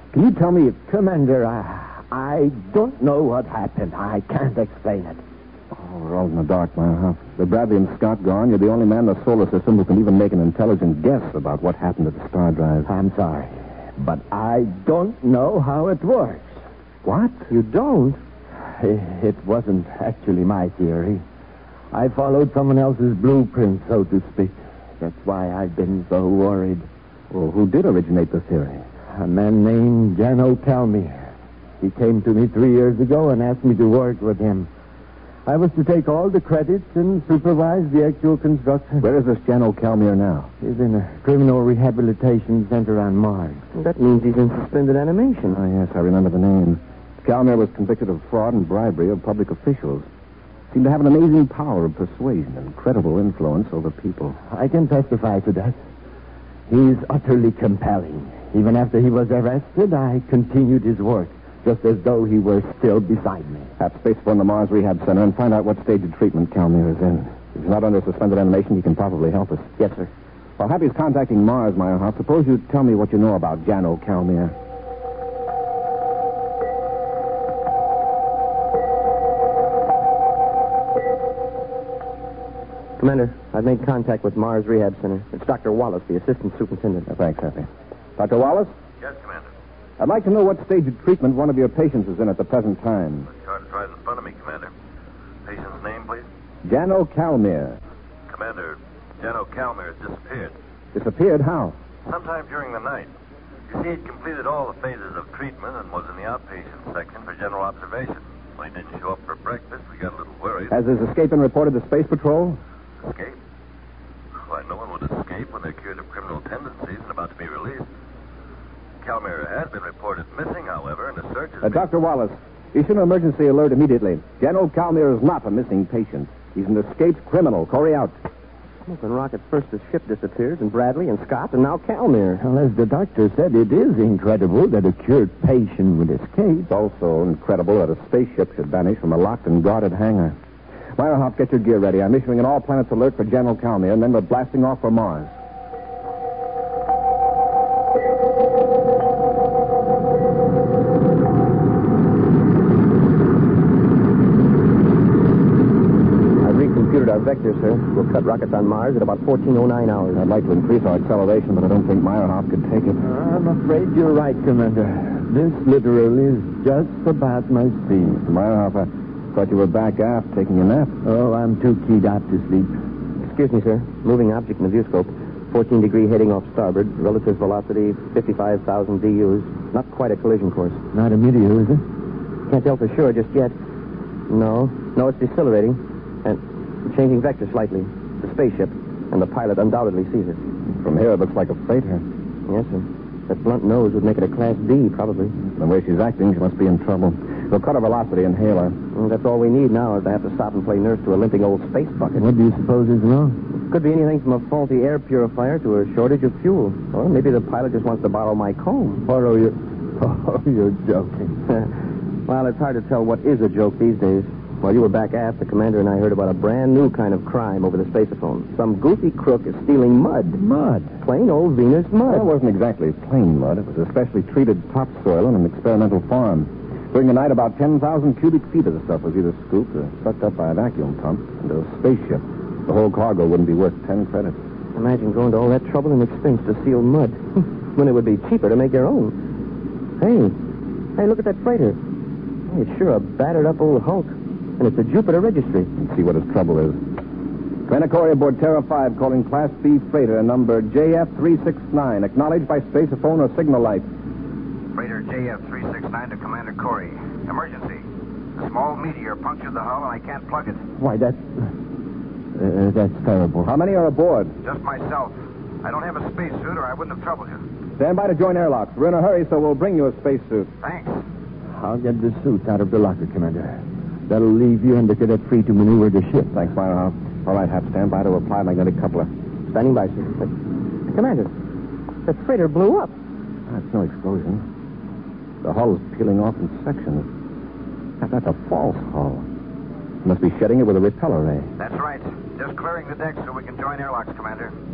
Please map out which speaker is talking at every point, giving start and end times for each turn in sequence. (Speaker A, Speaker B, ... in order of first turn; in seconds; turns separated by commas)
Speaker A: 0.1-5.2, Speaker B: 5.7-12.9, Speaker A: 12.8-16.6, Speaker B: 17.0-17.5, Speaker C: 17.5-18.2, Speaker A: 18.6-21.2, Speaker A: 21.9-26.9, Speaker B: 27.3-28.8, Speaker A: 29.1-31.3, Speaker A: 31.8-34.7, Speaker A: 35.5-39.1, Speaker B: 39.0-40.5, Speaker A: 40.6-43.6, Speaker C: 43.7-45.6, Speaker B: 45.5-50.1, Speaker B: 50.7-54.4, Speaker A: 54.5-55.8, Speaker A: 56.7-63.7, Speaker B: 63.8-69.7, Speaker C: 69.8-70.1, Speaker B: 70.6-74.5, Speaker C: 83.0-87.1, Speaker B: 87.1-88.7, Speaker D: 89.0-89.5, Speaker B: 90.0-93.3, Speaker D: 93.3-94.7, Speaker D: 95.4-96.3, Speaker B: 96.6-97.8, Speaker D: 98.3-100.5, Speaker B: 100.9-101.8, Speaker D: 102.0-103.1, Speaker D: 103.7-110.8, Speaker B: 110.7-112.6, Speaker D: 113.0-113.4, Speaker D: 114.3-117.9, Speaker D: 119.0-121.8, Speaker B: 121.6-128.2, Speaker C: 128.8-132.4, Speaker A: 132.4-136.7, Speaker B: 136.7-140.4, Speaker B: 141.0-145.3, Speaker C: 156.4-160.2, Speaker B: 160.1-163.0, Speaker A: 163.0-168.2, Speaker B: 168.0-170.9, Speaker A: 171.0-172.7, Speaker C: 173.2-180.8, Speaker A: 180.9-181.8, Speaker C: 182.5-183.5, Speaker C: 184.3-190.4, Speaker B: 190.8-192.0, Speaker C: 192.5-195.3, Speaker B: 195.5-198.8, Speaker C: 198.9-202.3, Speaker A: 202.1-203.4, Speaker C: 203.6-209.0, Speaker A: 209.1-211.3, Speaker C: 212.3-220.4, Speaker A: 220.3-220.9, Speaker C: 221.0-222.3, Speaker B: 222.0-234.4, Speaker C: 234.8-239.2, Speaker C: 240.0-240.4, Speaker C: 241.0-241.8, Speaker C: 242.5-245.7, Speaker B: 245.8-246.8, Speaker B: 247.7-253.8, Speaker E: 254.7-257.9, Speaker E: 258.4-260.6, Speaker A: 260.8-261.3, Speaker A: 262.3-263.5, Speaker B: 263.4-264.3, Speaker E: 264.4-267.4, Speaker B: 267.8-270.5, Speaker E: 270.6-271.0, Speaker A: 271.5-276.3, Speaker B: 276.3-279.1, Speaker C: 279.5-280.3, Speaker C: 280.9-281.3, Speaker C: 282.1-282.9, Speaker B: 283.5-284.4, Speaker B: 285.4-287.1, Speaker B: 288.0-289.2, Speaker B: 290.0-291.5, Speaker E: 291.6-294.5